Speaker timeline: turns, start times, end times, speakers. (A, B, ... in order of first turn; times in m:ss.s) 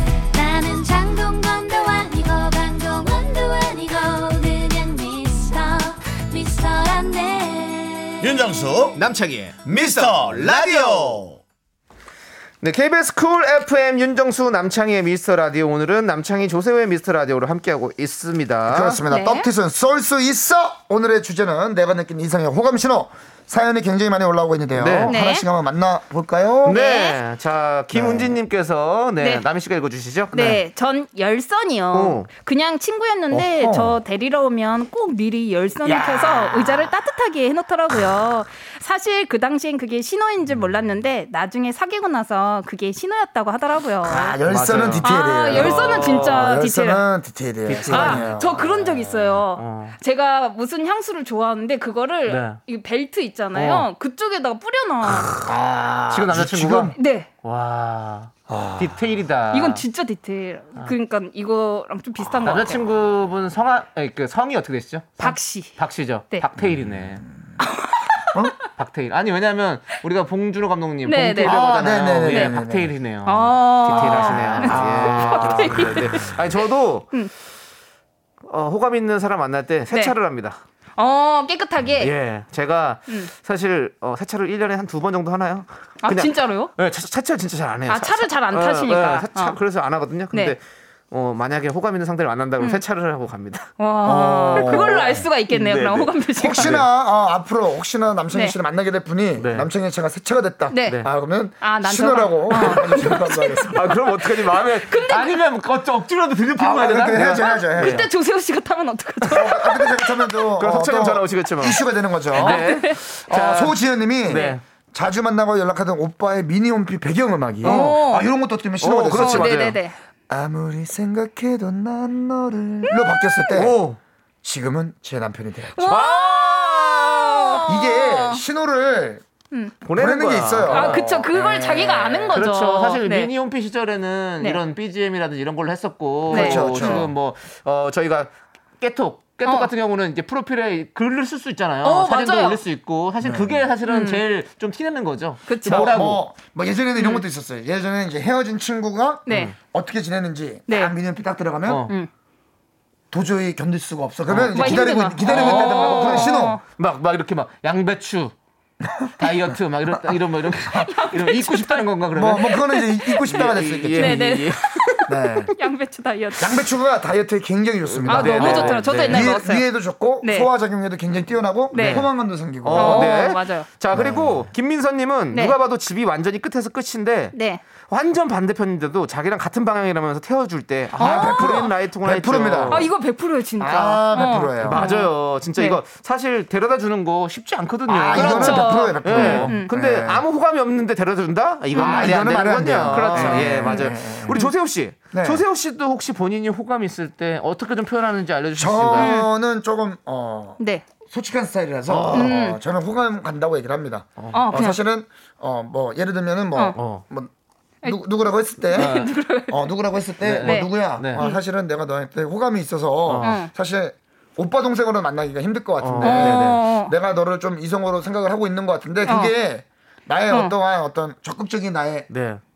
0:00.3-0:08.5 A
0:08.2-0:09.0 B
0:09.0-0:11.2 C
0:09.6-0:11.4 B
0:12.6-0:19.0 C
0:18.7-0:26.8 D
0:19.1-0:19.5 E
0:24.8-0:25.2 C
0:25.1-0:25.5 E
0:26.6-0:30.3 C
0:26.7-0:27.2 E
0:27.9-0:28.4 D
0:30.3-0:44.4 E
0:30.3-0:30.6 D
0:31.9-0:32.3 C
0:33.3-0:34.0 D
0:35.8-0:36.8 D
0:44.0-0:48.6 D
0:44.5-0:46.5 C
0:45.0-0:47.0 E
0:47.7-0:50.0 C
0:47.8-0:55.3 E
0:52.3-0:52.6 C
0:53.5-0:53.9 C
0:55.0-0:55.5 C
0:55.4-0:57.0 D
0:56.1-0:59.8 C
0:57.0-0:57.3 E
0:58.5-0:59.0 D
0:59.5-1:02.8 E
1:02.4-1:07.2 C
1:05.2-1:05.8 E
1:06.6-1:07.3 D
1:07.6-1:08.4 E
1:08.8-1:17.1 C
1:11.0-1:12.6 E
1:11.4-1:12.9 D
1:13.2-1:16.4 E
1:13.9-1:16.3 D
1:18.5-1:20.6 C
1:21.0-1:22.1 E
1:22.0-1:36.9 C
1:26.0-1:26.7 E
1:27.9-1:29.6 E
1:33.8-1:36.8 E
1:34.0-1:35.3 D
1:36.4-1:43.8 D
1:38.3-1:38.6 E
1:39.4-1:39.7 C
1:40.7-1:41.0 E
1:41.6-1:45.4 E
1:42.6-1:42.8 C
1:43.7-1:48.1 C
1:46.6-1:48.1 D
1:47.3-1:50.0 E
1:49.3-1:59.6 D
1:50.6-1:54.6 C
1:52.4-1:53.0 E
1:54.3-1:54.6 E
1:57.6-1:58.3 E
1:57.6-1:58.0 C
1:58.8-1:59.8 C
1:59.1-2:00.0 E
2:00.3-2:03.8 D
2:03.5-2:04.0 C
2:04.4-2:05.9 D
2:05.8-2:08.4 E
2:05.8-2:07.7 C
2:07.7-2:09.2 D
2:09.5-2:09.8 E
2:09.8-2:11.1 C
2:09.9-2:12.5 D
2:10.7-2:13.3 E
2:12.3-2:26.2 C
2:16.3-2:17.1 E
2:16.3-2:17.1 D
2:19.4-2:19.7 E
2:21.8-2:22.6 E
2:23.2-2:23.7 D
2:23.8-2:24.2 E
2:25.5-2:26.0 E
2:25.6-2:31.9 D
2:27.0-2:27.2 E
2:29.3-2:29.5 E
2:29.3-2:29.6 C
2:30.7-2:30.9 E
2:31.7-2:31.9 C
2:33.1-2:36.6 D
2:34.3-2:38.3 C
2:34.5-2:36.6 E
2:38.8-2:39.3 D
2:39.2-2:42.6 C
2:40.8-2:41.9 E
2:42.1-2:44.3 D
2:42.5-2:45.0 E
2:43.2-2:45.1 C
2:45.1-2:45.5 D
2:45.6-2:46.7 E
2:46.4-2:53.1 D
2:47.9-2:49.4 C
2:48.1-2:49.7 E
2:50.2-2:50.5 E
2:51.7-2:52.1 E
2:51.7-2:52.1 C
2:52.6-3:02.9 C
2:52.7-2:53.7 E
2:53.9-2:54.5 D
2:57.3-2:57.6 E
3:01.0-3:01.7 E
3:01.0-3:02.9 D
3:02.7-3:05.8 E
3:03.6-3:04.9 D
3:04.6-3:19.2 C
3:07.9-3:10.2 D
3:08.1-3:09.7 E
3:11.7-3:12.3 E
3:11.8-3:14.4 D
3:12.9-3:14.5 E
3:15.1-3:15.4 D
3:18.6-3:27.3 D
3:18.9-3:19.3 E
3:20.6-3:20.8 E
3:21.9-3:22.4 C
3:22.1-3:22.6 E
3:24.3-3:24.8 E
3:26.8-3:27.0 C
3:27.8-3:42.1 D
3:28.6-3:29.7 E
3:28.8-3:29.1 C
3:30.2-3:31.3 C
3:30.4-3:31.4 E
3:33.1-3:33.4 C
3:33.2-3:33.5 E
3:35.8-3:36.6 C
3:36.0-3:37.0 E
3:39.0-3:39.3 E
3:42.1-3:42.4 C